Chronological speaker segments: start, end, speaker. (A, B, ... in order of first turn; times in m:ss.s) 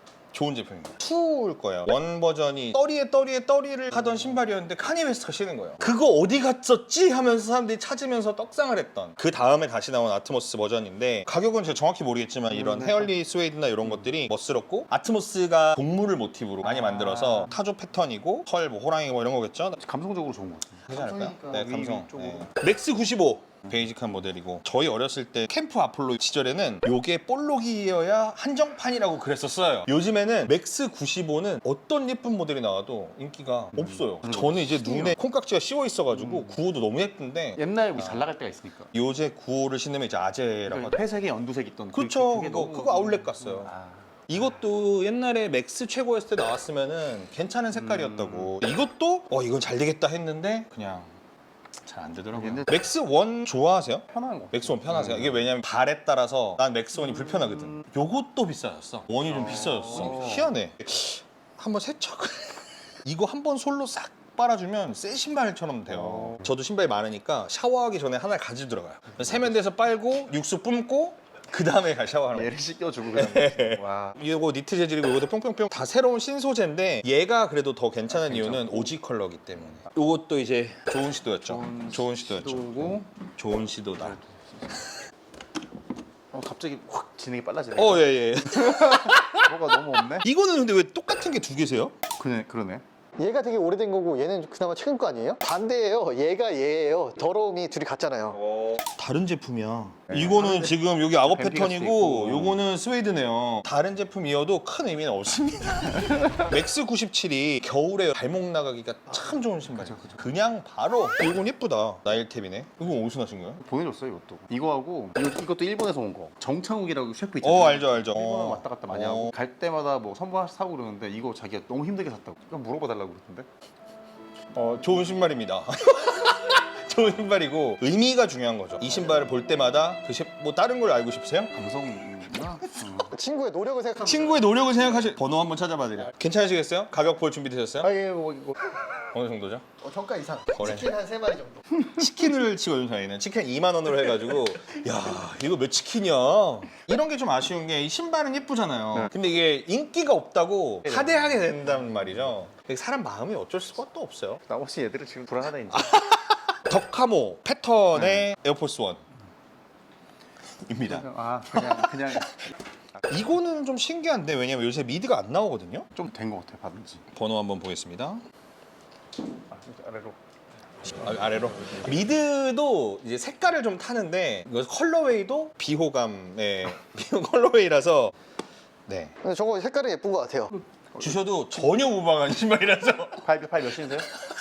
0:00.3-0:19.8 A
0:04.0-0:04.4 B
0:12.5-0:13.1 B
0:16.6-0:17.6 B
0:19.8-0:22.5 B
0:20.9-0:38.3 A
0:33.8-0:35.2 B
0:36.1-0:36.6 B
0:37.6-0:38.9 B
0:38.9-0:41.1 A
0:40.7-0:44.1 B
0:41.9-0:43.7 A
0:44.3-0:51.1 A
0:47.7-0:48.5 B
0:51.8-1:12.5 A
0:52.3-0:52.7 B
0:54.1-0:55.5 B
0:59.3-1:00.5 B
1:05.9-1:06.5 B
1:09.1-1:09.6 B
1:12.3-1:14.2 B
1:13.1-1:24.2 A
1:18.1-1:18.9 B
1:21.4-1:23.1 B
1:24.0-1:24.9 B
1:26.3-1:30.2 B
1:27.8-1:31.9 A
1:32.2-1:32.8 B
1:33.2-1:38.4 C
1:38.3-1:53.6 A
1:40.1-1:42.6 B
1:46.0-1:46.5 B
1:49.7-1:50.3 B
1:53.6-2:03.5 B
1:57.4-1:59.3 A
2:04.5-2:11.6 A
2:11.6-2:13.1 B
2:13.1-2:14.6 C
2:14.0-2:17.9 A
2:17.8-2:18.6 B
2:19.1-2:19.6 A
2:19.8-2:21.6 C
2:20.5-2:20.9 A
2:21.9-2:34.4 A
2:30.9-2:32.3 B
2:34.5-2:36.0 B
2:35.7-2:39.0 A
2:37.9-2:38.3 B
2:40.7-2:42.4 A
2:40.9-2:42.4 B
2:43.1-2:45.9 A
2:45.9-2:47.0 B
2:47.1-2:48.2 A
2:49.5-2:50.2 B
2:50.9-2:58.1 A
2:51.0-2:51.9 B
2:58.9-2:59.2 A
2:59.2-3:00.5 C
3:01.0-3:03.3 A
3:03.2-3:04.1 B